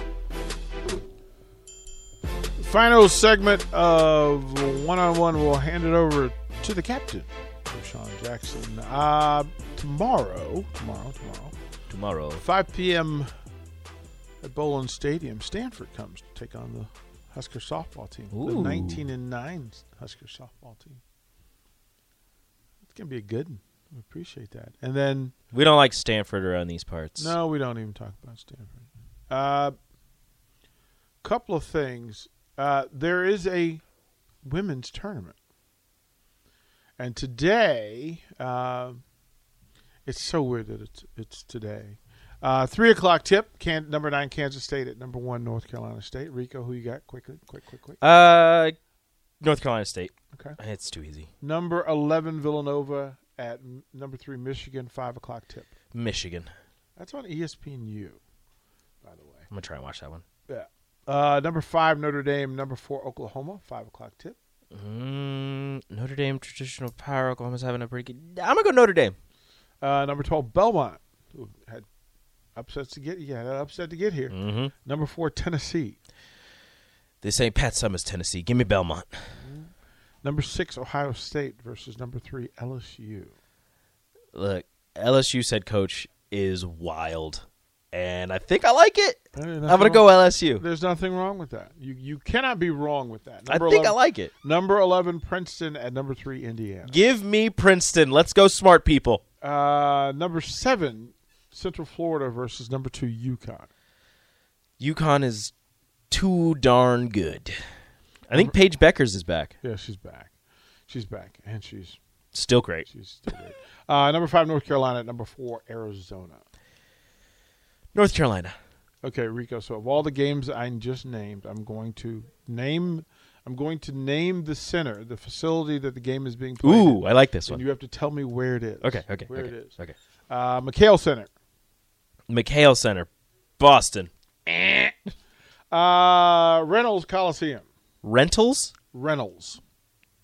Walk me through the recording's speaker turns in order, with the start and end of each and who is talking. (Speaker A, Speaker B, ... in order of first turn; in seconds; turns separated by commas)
Speaker A: 2.6-11.5, Speaker B: 11.9-12.4, Speaker A: 12.4-13.3, Speaker A: 14.4-21.0, Speaker B: 18.3-19.0, Speaker A: 22.9-25.3, Speaker B: 25.5-27.4, Speaker A: 27.2-29.8, Speaker A: 31.2-33.8, Speaker A: 34.4-35.4, Speaker A: 37.0-39.0, Speaker A: 40.0-48.0, Speaker B: 48.0-48.7, Speaker B: 49.4-51.3, Speaker A: 51.4-55.7, Speaker B: 55.9-56.5, Speaker A: 57.0-58.2, Speaker A: 59.0-59.5, Speaker B: 59.5-60.2, Speaker A: 60.5-64.4, Speaker B: 64.7-69.2, Speaker A: 69.8-71.9, Speaker A: 72.5-76.0, Speaker B: 74.3-74.7, Speaker B: 77.2-79.1, Speaker A: 79.4-79.7, Speaker A: 80.2-83.3, Speaker B: 84.3-90.6, Speaker A: 89.3-97.0, Speaker B: 93.5-94.3, Speaker B: 96.8-99.2, Speaker A: 99.4-103.7, Speaker B: 104.8-105.5, Speaker B: 106.1-107.6, Speaker B: 108.3-109.5, Speaker A: 109.6-110.3, Speaker A: 110.9-112.0, Speaker B: 112.3-112.9, Speaker A: 112.9-116.4, Speaker B: 117.9-118.5, Speaker A: 119.0-129.8, Speaker B: 126.6-127.6, Speaker B: 128.8-129.9, Speaker A: 130.3-131.3, Speaker B: 132.3-134.1, Speaker A: 134.5-134.9, Speaker A: 135.7-137.6, Speaker B: 138.0-138.7, Speaker A: 138.9-139.6